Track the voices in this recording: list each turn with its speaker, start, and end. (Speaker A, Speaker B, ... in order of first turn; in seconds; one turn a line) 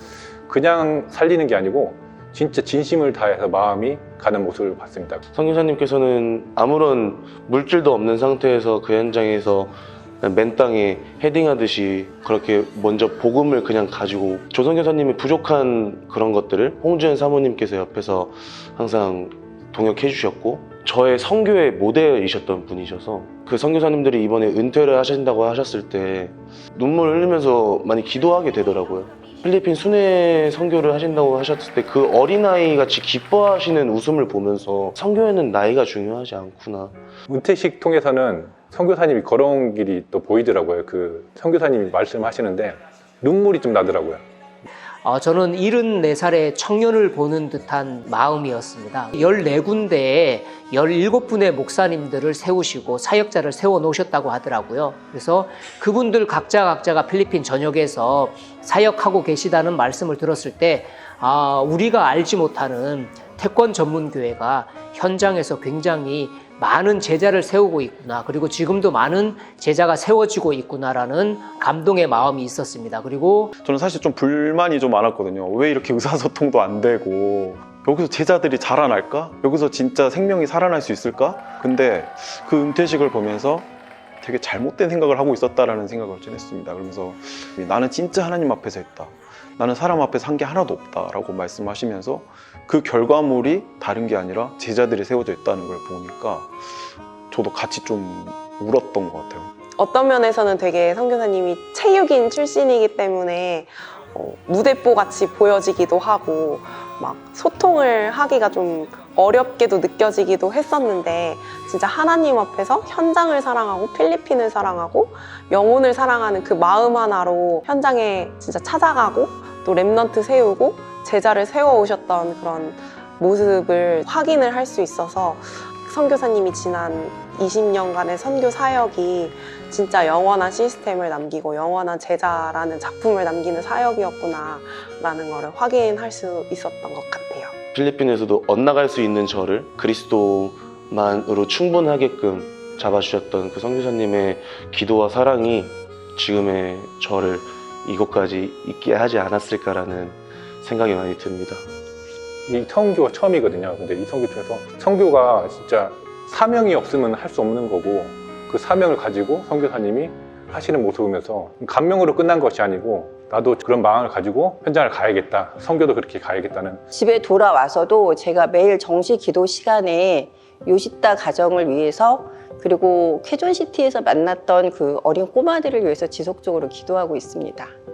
Speaker A: 0.5-5.2
Speaker B: 5.3-37.0
Speaker A: 37.3-44.2
Speaker C: 45.0-73.5
Speaker D: 73.6-83.7
Speaker D: 84.2-96.6
Speaker D: 97.3-99.5
Speaker E: 99.8-137.5
Speaker B: 137.7-151.7
Speaker A: 152.5-166.8
Speaker F: 166.9-177.7